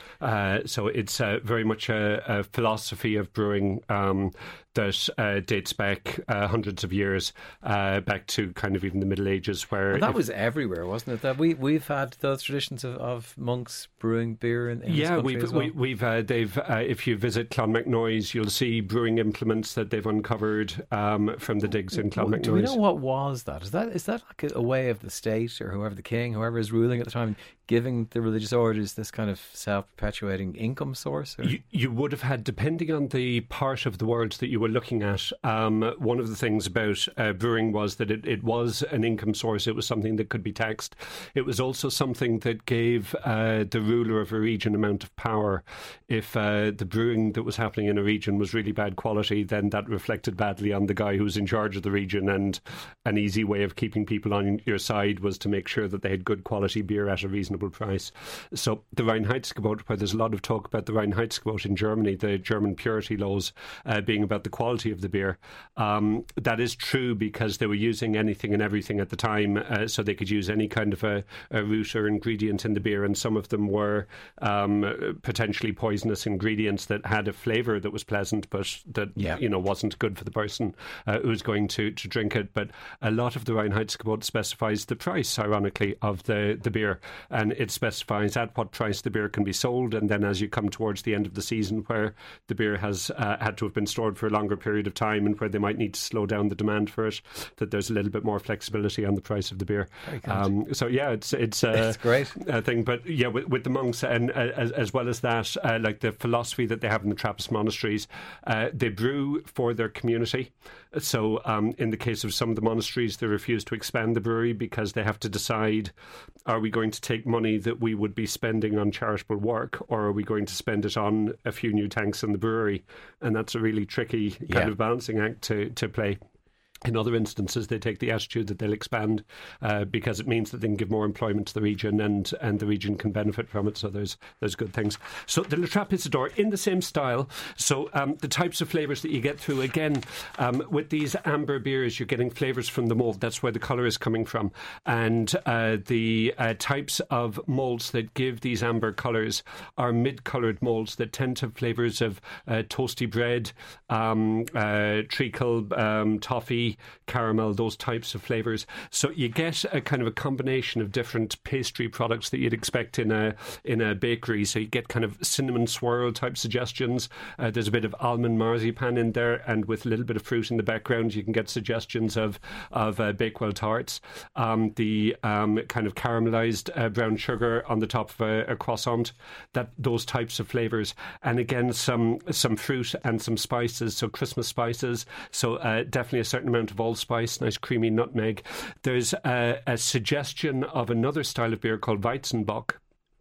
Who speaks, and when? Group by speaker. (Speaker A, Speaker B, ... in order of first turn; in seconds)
Speaker A: 0.2-10.2, 14.9-22.8, 31.4-115.9, 116.5-126.2, 126.8-192.8
Speaker B: 9.9-15.7, 21.9-31.6, 100.0-100.5, 101.7-102.3, 124.5-124.7